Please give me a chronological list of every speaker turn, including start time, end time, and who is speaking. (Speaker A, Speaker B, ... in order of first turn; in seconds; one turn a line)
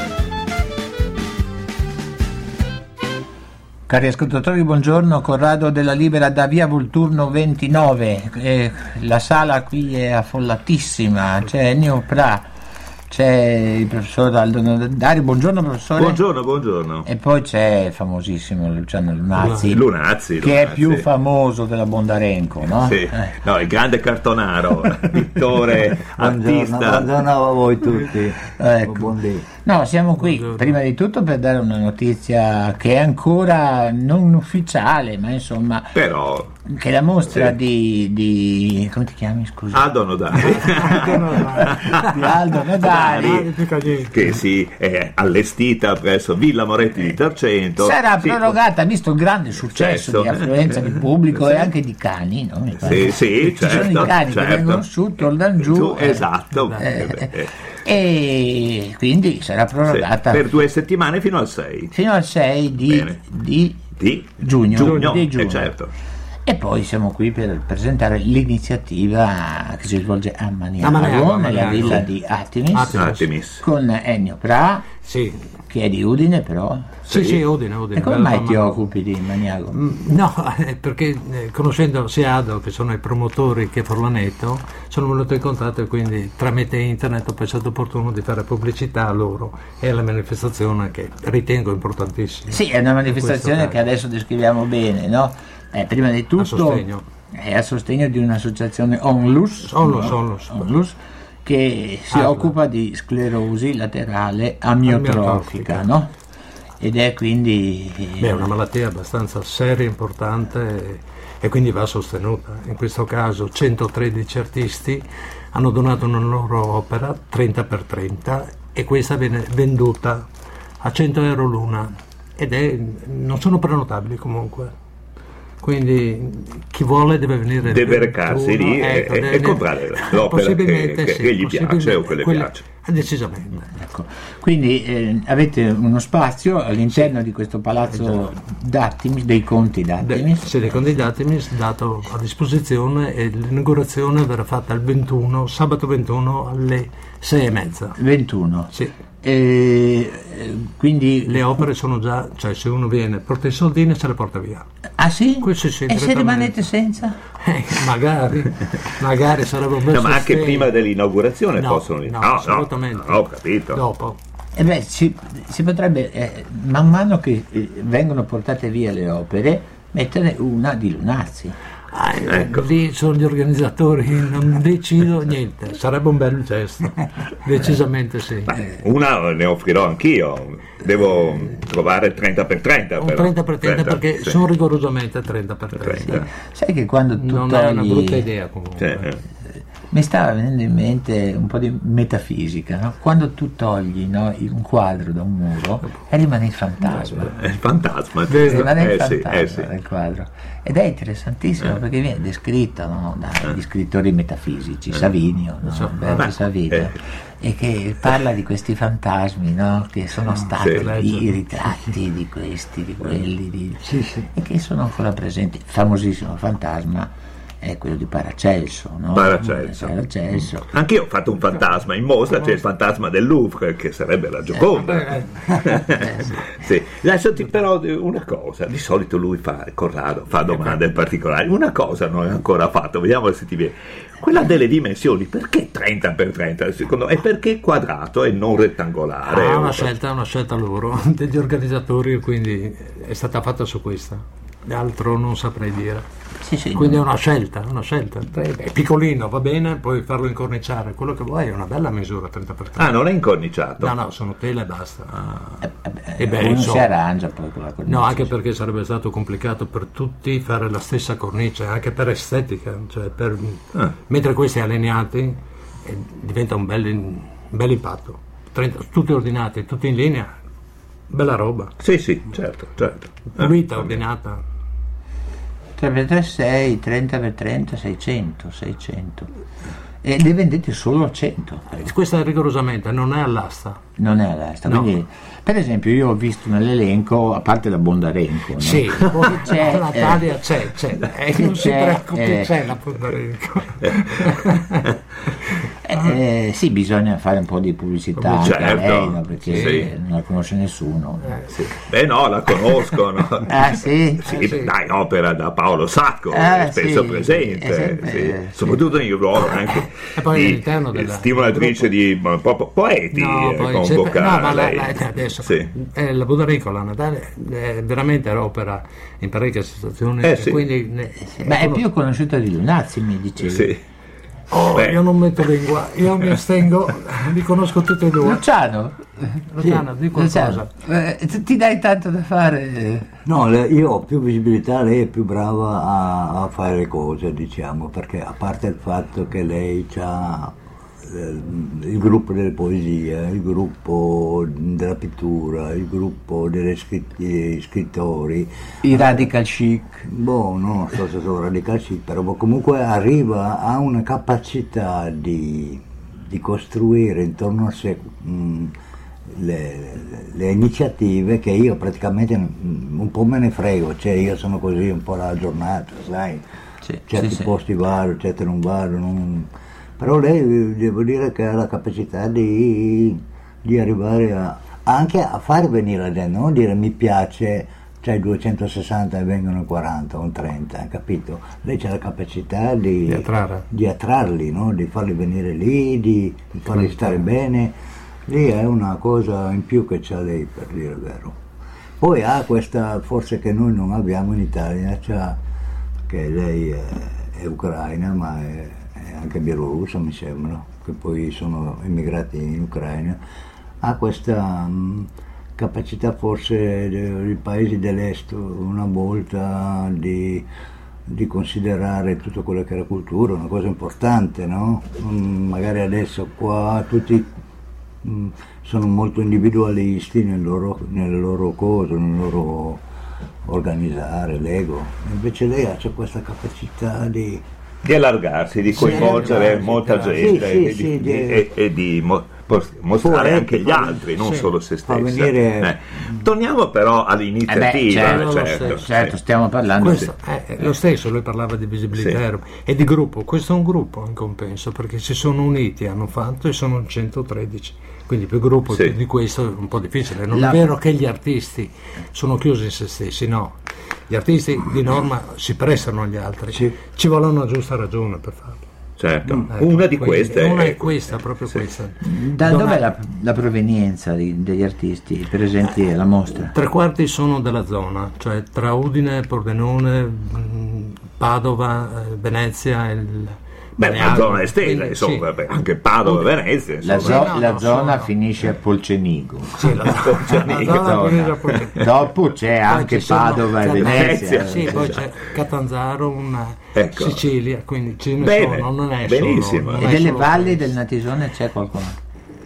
Speaker A: 3.9-12.5
Speaker A: 13.1-16.2
Speaker B: 16.0-17.1
Speaker A: 17.0-23.4
Speaker B: 19.5-21.1
Speaker B: 22.8-27.2
Speaker C: 26.1-29.4
Speaker A: 28.5-36.0
Speaker D: 30.2-30.8
Speaker B: 35.9-36.5
Speaker A: 36.6-41.1
Speaker B: 39.7-42.1
Speaker D: 40.4-44.1
Speaker A: 41.7-43.5
Speaker B: 42.8-43.4
Speaker B: 44.1-48.5
Speaker A: 47.8-60.5
Speaker B: 49.7-51.6
Speaker B: 52.8-54.9
Speaker B: 55.6-57.5
Speaker B: 59.9-61.9
Speaker A: 61.9-63.8
Speaker B: 62.9-63.1
Speaker B: 64.0-65.9
Speaker A: 64.4-65.7
Speaker D: 64.8-65.2
Speaker A: 66.4-73.1
Speaker D: 70.8-72.0
Speaker D: 72.7-73.3
Speaker B: 72.9-73.6
Speaker A: 73.6-74.9
Speaker D: 75.0-75.4
Speaker A: 75.7-77.0
Speaker D: 77.0-78.8
Speaker B: 77.1-77.4
Speaker A: 78.0-79.8
Speaker D: 79.7-93.8
Speaker A: 92.5-106.1
Speaker D: 96.4-97.0
Speaker D: 99.6-100.7
Speaker D: 102.1-102.5
Speaker D: 104.8-105.8
Speaker A: 106.8-108.5
Speaker D: 108.2-120.3
Speaker D: 120.8-124.7
Speaker D: 125.6-133.7
Speaker B: 127.7-132.6
Speaker A: 133.8-141.0
Speaker D: 140.0-148.0
Speaker A: 148.0-151.6
Speaker D: 151.2-154.7
Speaker A: 155.0-157.2
Speaker D: 155.4-156.6
Speaker D: 157.4-160.7
Speaker B: 159.9-163.8
Speaker D: 161.6-164.2
Speaker A: 164.6-171.6
Speaker D: 171.9-178.6
Speaker B: 172.3-172.7
Speaker B: 178.5-184.4
Speaker D: 183.0-186.2
Speaker B: 185.8-186.2
Speaker A: 186.1-188.3
Speaker D: 187.2-189.1
Speaker B: 188.8-189.2
Speaker A: 189.9-197.4
Speaker B: 197.3-199.7
Speaker D: 198.3-198.7
Speaker A: 198.3-220.7
Speaker D: 205.6-206.2
Speaker B: 206.2-206.9
Speaker D: 210.6-211.4
Speaker C: 213.8-214.3
Speaker B: 219.1-220.0
Speaker B: 220.6-239.9
Speaker D: 225.1-225.6
Speaker D: 239.3-246.1
Speaker A: 246.4-247.0
Speaker D: 246.7-252.9
Speaker B: 252.8-253.9
Speaker D: 253.8-255.2
Speaker A: 255.6-258.3
Speaker D: 256.2-256.9
Speaker D: 257.9-270.3
Speaker D: 271.1-271.7
Speaker B: 271.8-273.6
Speaker D: 273.3-274.4
Speaker A: 275.8-279.3
Speaker A: 280.0-281.8
Speaker D: 281.7-283.8
Speaker A: 284.0-290.3
Speaker D: 288.6-294.8
Speaker A: 291.3-292.5
Speaker A: 295.8-301.4
Speaker B: 298.3-299.9
Speaker D: 299.5-299.8
Speaker B: 301.5-315.7
Speaker A: 303.5-304.4
Speaker D: 304.2-304.7
Speaker A: 306.3-308.8
Speaker D: 310.1-311.9
Speaker D: 313.1-321.8
Speaker B: 320.2-320.6
Speaker A: 321.4-323.8
Speaker B: 323.4-323.8
Speaker D: 324.5-328.4
Speaker A: 328.2-329.0
Speaker D: 329.5-330.7
Speaker A: 329.6-333.1
Speaker C: 333.2-340.5
Speaker C: 341.1-349.3
Speaker A: 348.8-350.0
Speaker C: 350.1-358.7
Speaker C: 359.3-366.4
Speaker A: 366.9-367.5
Speaker C: 367.1-387.7
Speaker D: 383.1-383.6
Speaker C: 388.2-391.4
Speaker C: 392.0-395.4
Speaker C: 396.1-403.2
Speaker C: 403.8-410.5
Speaker C: 411.1-417.3
Speaker C: 418.0-422.8
Speaker C: 423.4-427.4
Speaker B: 427.8-439.1
Speaker D: 428.7-430.4
Speaker C: 428.8-431.4
Speaker C: 433.0-434.0
Speaker D: 434.2-434.5
Speaker C: 434.9-436.2
Speaker A: 437.5-440.1
Speaker D: 437.9-438.9
Speaker D: 439.8-453.6
Speaker A: 450.3-450.7
Speaker D: 454.1-458.6
Speaker B: 459.0-461.6
Speaker D: 459.5-462.8
Speaker A: 462.0-466.5
Speaker D: 466.5-475.3
Speaker B: 473.8-477.3
Speaker A: 476.8-484.9
Speaker D: 476.9-478.1
Speaker D: 479.6-482.1
Speaker B: 479.7-481.6
Speaker D: 482.7-490.7
Speaker B: 483.7-485.0
Speaker B: 486.7-487.2
Speaker B: 488.2-489.9
Speaker A: 489.8-492.0